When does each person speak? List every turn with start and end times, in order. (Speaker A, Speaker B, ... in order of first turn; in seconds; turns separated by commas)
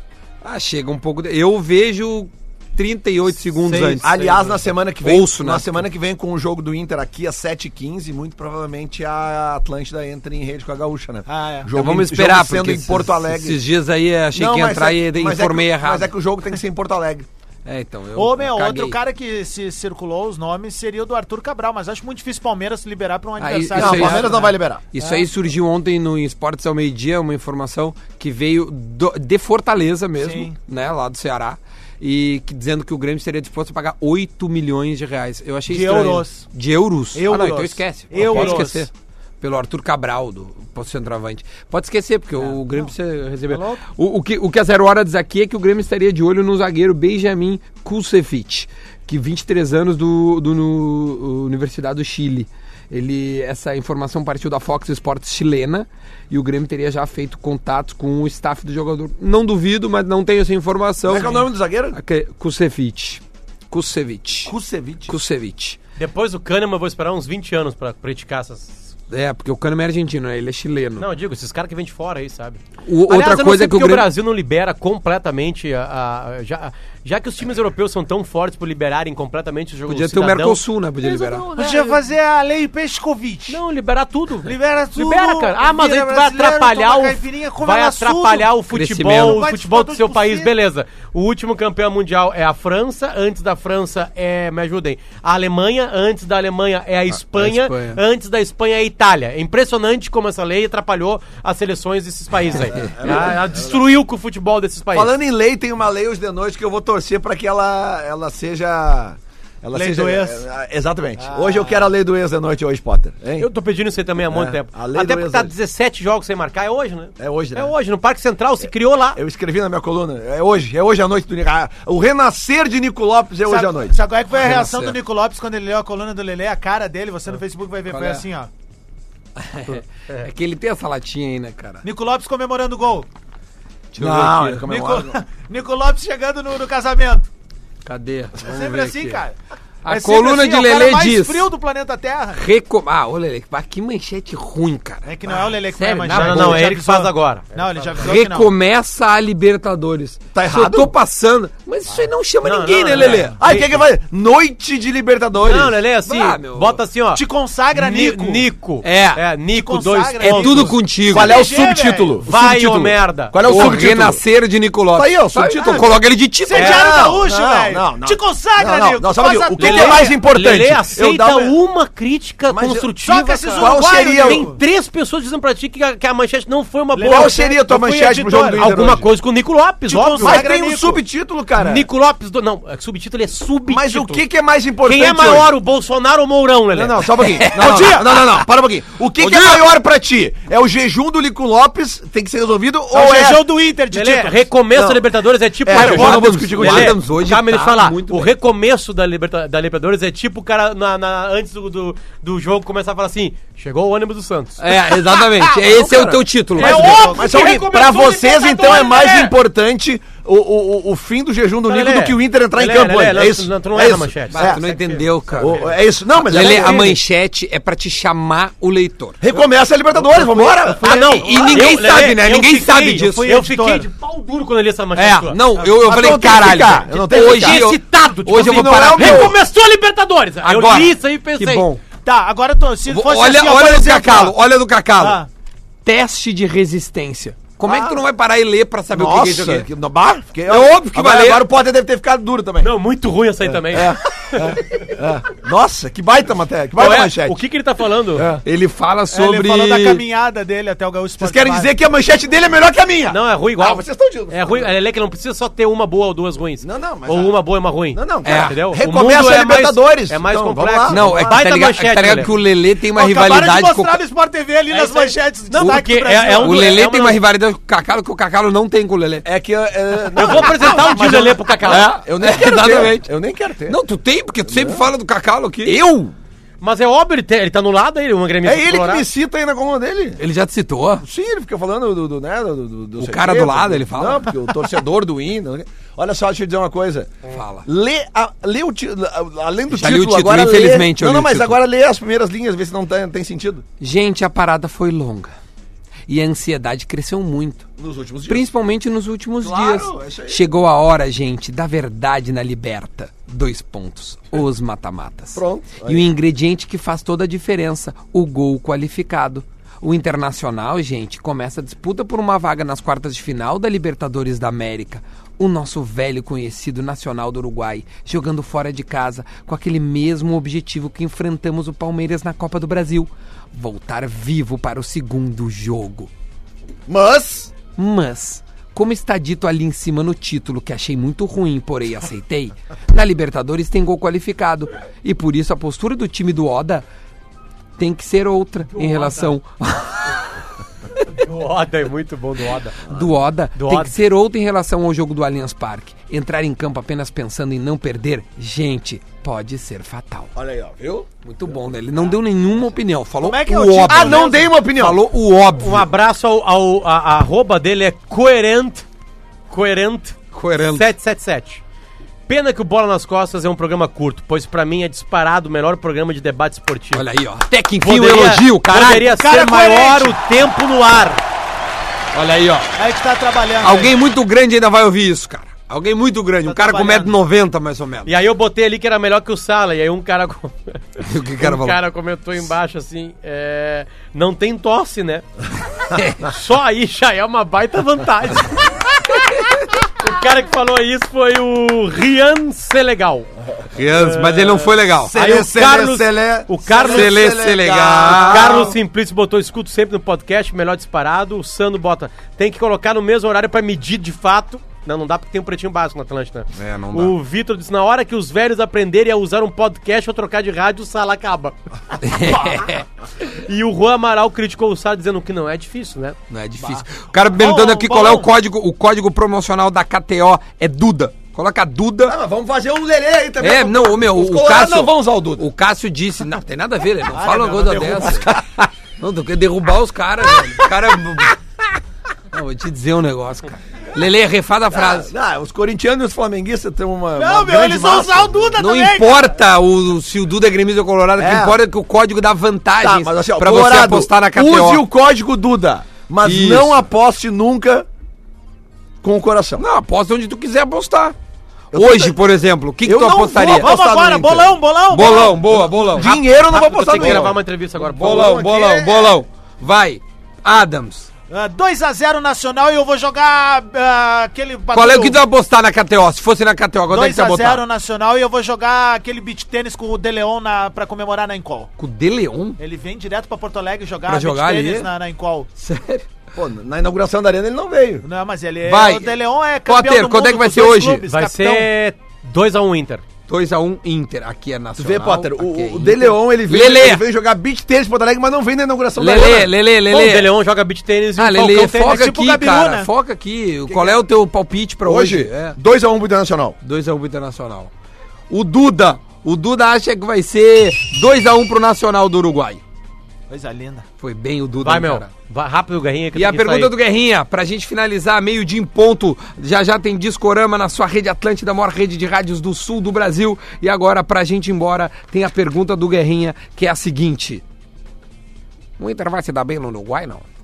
Speaker A: 0.4-4.1, Speaker B: 3.6-4.7, Speaker C: 4.0-13.6, Speaker A: 5.0-5.8, Speaker D: 11.3-11.7, Speaker A: 11.8-16.1, Speaker C: 14.3-17.3, Speaker A: 17.6-19.0, Speaker D: 18.2-25.3, Speaker A: 23.4-38.9, Speaker C: 23.7-24.8, Speaker D: 30.2-30.6, Speaker D: 35.7-36.5, Speaker D: 37.1-38.9, Speaker B: 38.2-38.6, Speaker A: 39.4-64.5, Speaker D: 42.4-42.9, Speaker D: 43.5-43.8, Speaker C: 61.1-62.0, Speaker C: 64.5-65.1, Speaker A: 65.1-65.8, Speaker B: 66.0-68.9, Speaker A: 69.1-71.1, Speaker B: 71.0-82.0, Speaker A: 72.9-74.1, Speaker A: 79.9-81.5, Speaker D: 81.6-83.6, Speaker B: 83.5-105.1, Speaker D: 84.4-88.5, Speaker A: 88.7-89.4, Speaker D: 89.2-90.5, Speaker A: 97.1-98.0, Speaker C: 102.6-103.8, Speaker C: 104.9-113.5, Speaker D: 109.7-110.4, Speaker D: 111.2-111.8, Speaker B: 113.4-119.2, Speaker C: 114.3-115.5, Speaker C: 117.2-117.7, Speaker C: 119.1-124.0, Speaker D: 123.5-128.5, Speaker A: 124.3-125.0, Speaker A: 127.9-128.2, Speaker A: 129.4-131.8, Speaker B: 129.7-130.3, Speaker D: 131.8-133.1, Speaker A: 133.9-134.6, Speaker C: 134.0-135.2, Speaker D: 134.6-137.3, Speaker A: 137.8-139.2, Speaker D: 138.4-139.3, Speaker A: 139.8-141.4, Speaker D: 139.9-142.4, Speaker A: 142.3-146.7, Speaker D: 145.1-148.5, Speaker B: 146.1-148.0, Speaker A: 148.0-153.4, Speaker C: 150.3-150.9, Speaker B: 152.4-153.8, Speaker D: 152.9-153.3, Speaker C: 153.0-155.8, Speaker B: 155.4-157.2, Speaker A: 156.1-156.8, Speaker D: 157.1-158.4, Speaker B: 157.7-160.8, Speaker A: 158.8-159.2, Speaker D: 159.5-162.1, Speaker A: 160.2-161.4, Speaker C: 161.1-164.2, Speaker B: 162.2-163.8, Speaker A: 163.4-167.0, Speaker C: 164.9-165.9, Speaker D: 165.6-165.9, Speaker D: 166.4-170.1, Speaker C: 166.6-171.6, Speaker B: 169.6-180.5, Speaker C: 172.5-172.9, Speaker D: 173.0-174.6, Speaker C: 173.5-174.6, Speaker D: 176.9-177.6, Speaker C: 177.0-179.1, Speaker D: 178.1-178.6, Speaker D: 179.9-181.0, Speaker C: 180.2-181.9, Speaker B: 181.6-184.2, Speaker C: 183.7-185.6, Speaker B: 184.8-187.1, Speaker C: 186.7-193.5, Speaker A: 187.3-188.4, Speaker D: 187.5-188.1, Speaker A: 189.2-189.7, Speaker D: 192.9-194.4, Speaker B: 193.9-204.7, Speaker C: 194.7-195.0, Speaker C: 195.6-197.0, Speaker A: 195.7-198.3, Speaker A: 204.6-207.0, Speaker C: 205.5-214.6, Speaker D: 205.7-206.1, Speaker D: 206.6-207.6, Speaker B: 206.6-209.3, Speaker B: 211.7-217.0, Speaker A: 214.3-219.2, Speaker C: 215.4-217.0, Speaker C: 219.2-221.5, Speaker A: 220.1-223.4, Speaker B: 220.8-225.4, Speaker D: 220.9-221.7, Speaker D: 222.9-223.9, Speaker A: 224.9-229.4, Speaker C: 225.8-227.7, Speaker B: 227.0-231.6, Speaker C: 228.3-229.4, Speaker A: 230.4-231.8, Speaker D: 232.0-234.4, Speaker A: 232.9-235.2, Speaker D: 235.0-235.3, Speaker A: 235.8-239.7, Speaker C: 237.6-238.0, Speaker C: 238.9-242.7, Speaker A: 240.5-241.4, Speaker B: 242.6-244.6, Speaker C: 243.5-247.4, Speaker B: 246.8-248.3, Speaker C: 248.2-248.4, Speaker A: 248.4-250.0, Speaker D: 249.1-251.7, Speaker C: 251.2-254.7, Speaker B: 253.1-262.3, Speaker C: 256.6-257.4, Speaker C: 257.9-261.2, Speaker A: 258.2-258.6, Speaker A: 260.9-264.0, Speaker D: 262.9-266.8, Speaker B: 264.7-267.2, Speaker A: 265.6-265.8, Speaker A: 266.4-269.2, Speaker C: 269.2-273.8, Speaker B: 270.1-271.9, Speaker A: 271.6-273.1, Speaker A: 273.6-275.8, Speaker C: 274.5-274.9, Speaker C: 275.6-276.1, Speaker B: 276.6-279.1, Speaker C: 278.4-280.2, Speaker A: 280.2-281.0, Speaker C: 281.0-287.1, Speaker A: 283.0-284.6, Speaker A: 287.3-287.6, Speaker C: 287.6-293.6, Speaker A: 289.7-291.6, Speaker A: 293.8-295.3, Speaker A: 296.1-297.7, Speaker C: 297.8-298.5, Speaker A: 298.3-326.1, Speaker C: 299.4-300.4, Speaker C: 305.4-306.1, Speaker C: 326.9-327.5, Speaker A: 327.8-336.9, Speaker A: 337.8-340.4, Speaker B: 338.7-339.4, Speaker B: 341.1-342.9, Speaker A: 342.9-350.3, Speaker B: 343.6-343.9, Speaker C: 350.4-351.1, Speaker A: 351.2-355.9, Speaker D: 353.2-354.5, Speaker C: 353.9-355.0, Speaker B: 355.5-358.9, Speaker B: 359.5-361.6, Speaker A: 360.3-360.9, Speaker B: 362.3-367.0, Speaker A: 366.9-369.1, Speaker B: 367.8-371.2, Speaker D: 369.1-370.2, Speaker A: 372.1-372.7, Speaker D: 372.8-373.9, Speaker A: 373.6-378.1, Speaker D: 376.4-377.1, Speaker B: 378.1-385.2, Speaker A: 381.0-381.8, Speaker A: 385.9-386.2, Speaker B: 386.2-388.9, Speaker B: 389.8-393.3, Speaker A: 393.7-395.2, Speaker B: 393.9-397.2, Speaker C: 395.0-398.7, Speaker A: 396.8-398.8, Speaker B: 398.1-412.7, Speaker A: 406.6-407.1, Speaker A: 412.0-412.8, Speaker B: 413.2-416.2, Speaker A: 416.3-422.2, Speaker D: 417.4-418.3, Speaker C: 422.1-425.4, Speaker A: 423.4-431.4, Speaker D: 427.1-428.2, Speaker C: 427.6-428.3, Speaker A: 432.3-435.1, Speaker C: 434.7-438.5, Speaker D: 437.2-439.3, Speaker A: 438.6-444.8, Speaker C: 441.2-441.6, Speaker C: 442.8-447.9, Speaker A: 446.2-446.8, Speaker C: 449.0-449.6, Speaker A: 449.6-451.1, Speaker C: 451.7-452.2, Speaker A: 451.7-453.7, Speaker C: 452.8-459.2, Speaker D: 453.5-455.7, Speaker A: 454.9-456.2, Speaker B: 456.0-458.3, Speaker A: 456.9-457.3, Speaker A: 457.9-461.1, Speaker D: 461.3-465.2, Speaker A: 464.7-467.6, Speaker D: 466.9-471.7, Speaker A: 471.8-472.6, Speaker D: 472.6-475.5, Speaker A: 474.1-474.9, Speaker A: 475.6-476.1, Speaker C: 476.3-478.1, Speaker D: 478.0-481.7, Speaker A: 478.6-481.1, Speaker B: 481.1-483.0, Speaker A: 483.3-487.0, Speaker C: 484.8-489.5, Speaker A: 489.0-490.3, Speaker B: 489.9-492.0, Speaker A: 491.2-495.6, Speaker D: 491.7-492.9, Speaker C: 494.9-496.6, Speaker A: 496.6-497.7, Speaker A: 498.3-502.6, Speaker D: 503.3-503.9, Speaker A: 504.0-505.1, Speaker B: 504.6-506.7, Speaker A: 506.1-517.4, Speaker A: 518.8-520.3